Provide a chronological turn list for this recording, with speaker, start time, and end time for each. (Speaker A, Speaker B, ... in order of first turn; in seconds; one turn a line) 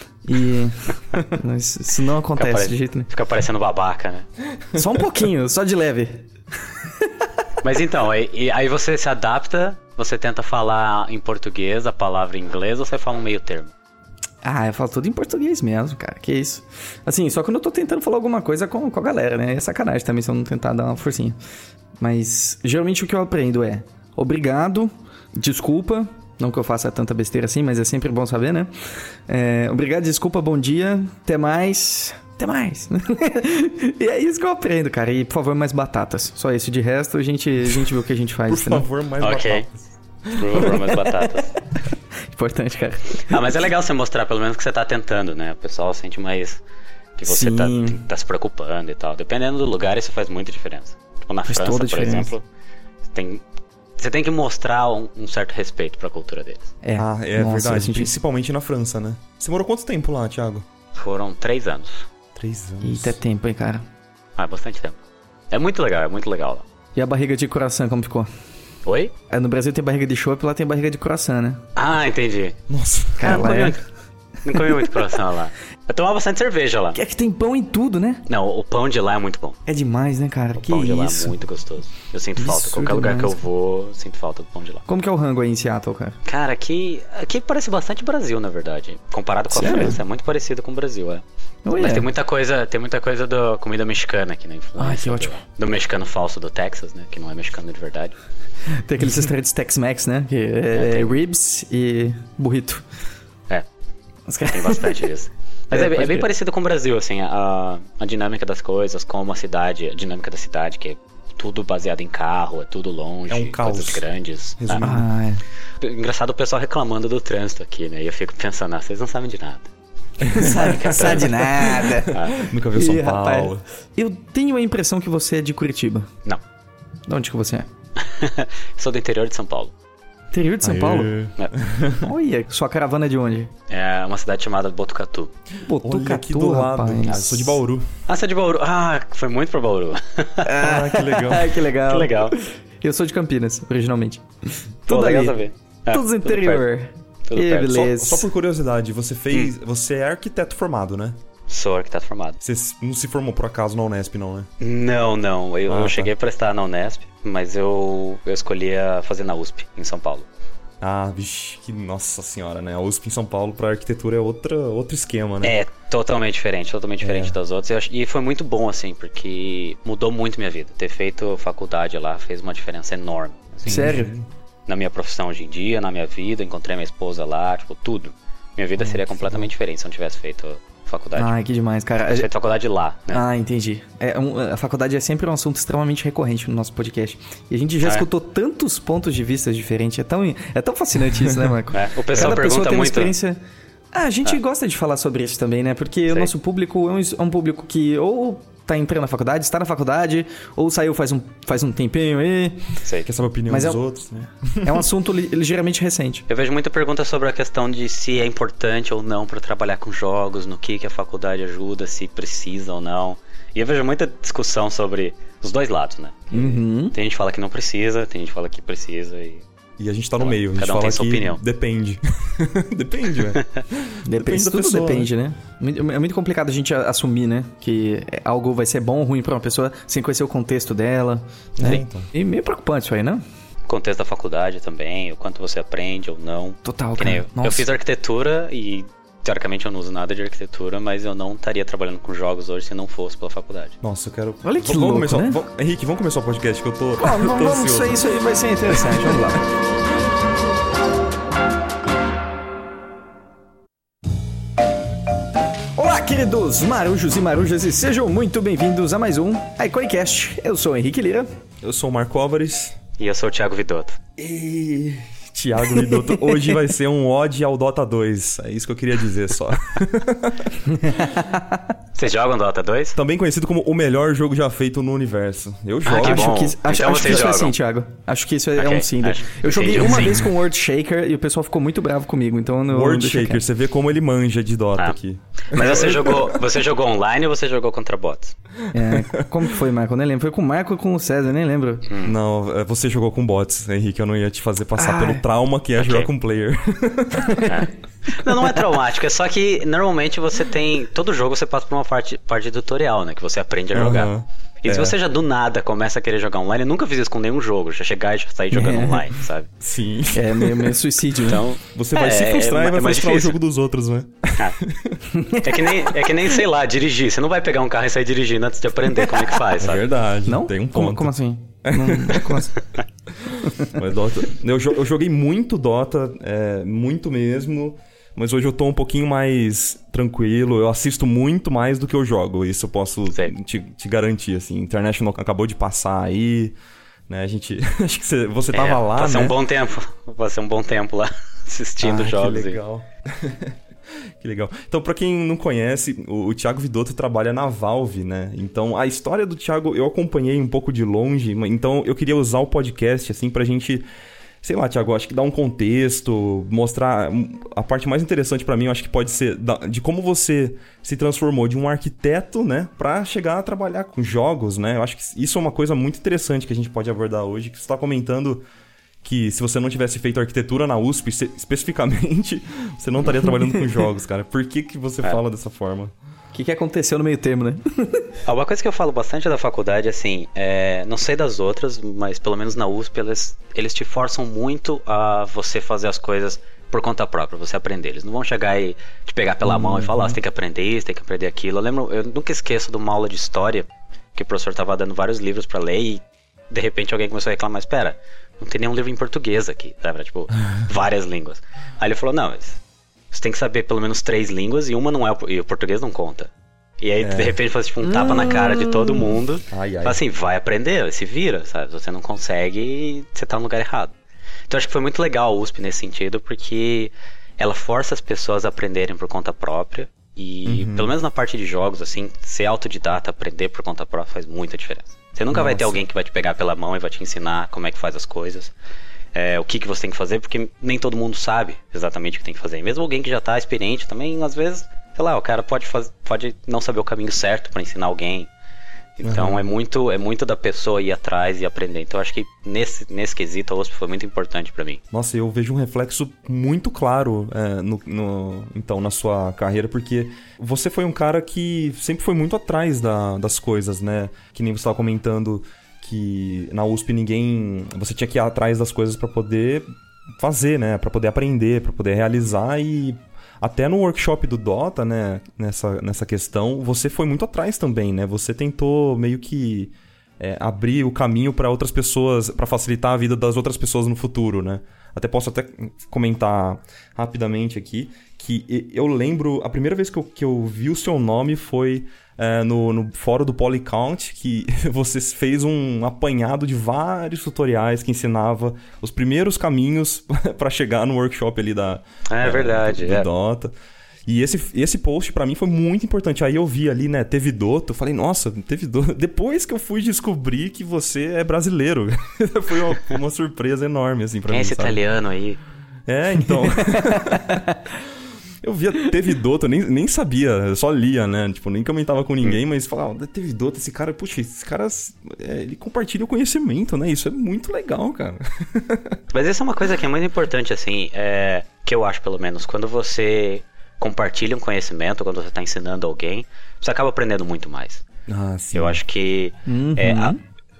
Speaker A: 0.2-3.1
Speaker B: 2.4-4.3
Speaker A: 4.7-6.2
Speaker B: 7.6-13.7
Speaker A: 14.4-21.4
Speaker A: 22.0-38.9
Speaker C: 38.5-40.7
Speaker B: 39.2-39.7
Speaker B: 40.3-41.5
Speaker A: 40.7-41.2
Speaker A: 41.9-43.4
Speaker B: 43.2-46.6
Speaker B: 47.2-52.4
Speaker A: 47.3-48.0
Speaker A: 51.5-52.3
Speaker B: 53.1-53.4
Speaker B: 54.0-56.7
Speaker A: 56.8-58.1
Speaker C: 57.0-60.6
Speaker B: 60.9-62.1
Speaker C: 62.3-63.2
Speaker A: 62.8-63.9
Speaker B: 64.3-65.0
Speaker B: 65.5-66.6
Speaker A: 66.9-68.3
Speaker B: 68.8-69.1
Speaker A: 69.3-71.6
Speaker B: 71.8-72.6
Speaker C: 72.7-73.4
Speaker A: 73.2-73.8
Speaker B: 73.2-73.8
Speaker B: 74.4-77.0
Speaker A: 76.9-78.2
Speaker B: 78.3-79.6
Speaker A: 79.7-81.3
Speaker B: 80.6-84.8
Speaker A: 82.4-83.4
Speaker A: 84.9-86.2
Speaker B: 86.2-98.2
Speaker A: 89.5-90.0
Speaker A: 91.6-92.1
Speaker A: 94.8-95.4
Speaker A: 98.7-102.8
Speaker B: 100.7-101.1
Speaker A: 104.3-105.0
Speaker B: 104.5-114.9
Speaker A: 105.7-106.3
Speaker C: 113.3-114.0
Speaker C: 114.6-115.1
Speaker A: 114.8-115.4
Speaker B: 115.8-119.7
Speaker C: 120.2-123.6
Speaker A: 120.3-126.1
Speaker B: 120.3-122.4
Speaker A: 127.1-127.7
Speaker B: 128.0-129.7
Speaker A: 130.3-131.1
Speaker C: 130.6-132.1
Speaker A: 132.0-133.5
Speaker B: 133.7-135.3
Speaker A: 135.7-137.6
Speaker C: 135.8-137.9
Speaker B: 138.1-140.5
Speaker A: 140.4-145.4
Speaker C: 140.6-141.6
Speaker B: 141.9-142.3
Speaker B: 144.9-146.6
Speaker A: 145.9-148.2
Speaker B: 147.3-147.9
Speaker C: 147.9-151.2
Speaker B: 151.5-152.4
Speaker C: 152.4-154.5
Speaker B: 154.6-160.3
Speaker C: 155.7-156.1
Speaker C: 160.8-165.6
Speaker B: 165.4-173.9
Speaker C: 167.0-167.4
Speaker C: 173.7-174.2
Speaker A: 173.7-174.1
Speaker B: 174.7-181.3
Speaker C: 178.9-179.4
Speaker A: 181.2-182.3
Speaker B: 182.1-183.2
Speaker A: 183.1-193.4
Speaker B: 191.7-193.1
Speaker A: 193.9-202.6
Speaker C: 203.0-204.9
Speaker A: 203.5-203.8
Speaker A: 204.6-206.2
Speaker B: 206.3-219.4
Speaker A: 216.3-216.9
Speaker C: 219.8-225.1
Speaker B: 220.2-221.4
Speaker A: 224.0-233.2
Speaker C: 231.6-232.1
Speaker B: 233.7-243.8
Speaker A: 236.6-237.7
Speaker C: 243.8-248.1
Speaker A: 244.4-245.4
Speaker A: 247.0-249.4
Speaker C: 248.7-249.4
Speaker A: 255.8-261.3
Speaker C: 261.6-262.7
Speaker B: 263.0-264.0
Speaker C: 264.2-270.6
Speaker A: 265.7-266.5
Speaker A: 270.7-271.6
Speaker B: 271.9-273.0
Speaker C: 272.9-276.4
Speaker B: 275.8-277.5
Speaker A: 275.9-283.4
Speaker B: 278.6-280.3
Speaker C: 282.7-286.4
Speaker B: 285.5-288.3
Speaker C: 288.6-289.4
Speaker A: 288.7-291.8
Speaker B: 291.9-292.1
Speaker C: 292.0-297.6
Speaker A: 294.8-295.2
Speaker B: 295.8-296.1
Speaker B: 297.4-309.5
Speaker C: 303.7-304.9
Speaker A: 308.5-309.1
Speaker C: 309.6-310.8
Speaker A: 310.1-311.4
Speaker B: 311.2-313.4
Speaker C: 311.6-315.0
Speaker A: 315.1-316.3
Speaker B: 315.4-319.8
Speaker C: 319.6-321.1
Speaker A: 320.2-322.5
Speaker C: 321.6-322.5
Speaker C: 323.1-336.6
Speaker C: 337.1-339.4
Speaker B: 338.5-342.6
Speaker C: 341.8-343.6
Speaker C: 344.2-353.8
Speaker C: 354.4-368.4
Speaker C: 369.0-375.9
Speaker A: 376.3-378.1
Speaker B: 378.2-402.6
Speaker A: 389.5-390.1
Speaker B: 403.1-413.9
Speaker C: 407.0-407.4
Speaker A: 407.8-409.1
Speaker C: 409.5-410.0
Speaker B: 414.5-428.5
Speaker C: 420.4-420.9
Speaker C: 425.3-425.8
Speaker B: 429.1-438.3
Speaker B: 439.0-444.8
Speaker C: 439.0-439.5
Speaker C: 444.9-493.5
Speaker B: 492.1-493.1
Speaker C: 494.1-504.8
Speaker B: 504.3-505.4
Speaker C: 505.9-507.4
Speaker A: 506.5-507.6
Speaker C: 508.4-519.0
Speaker B: 519.1-527.8
Speaker C: 528.1-528.8
Speaker B: 528.5-530.1
Speaker A: 529.5-530.2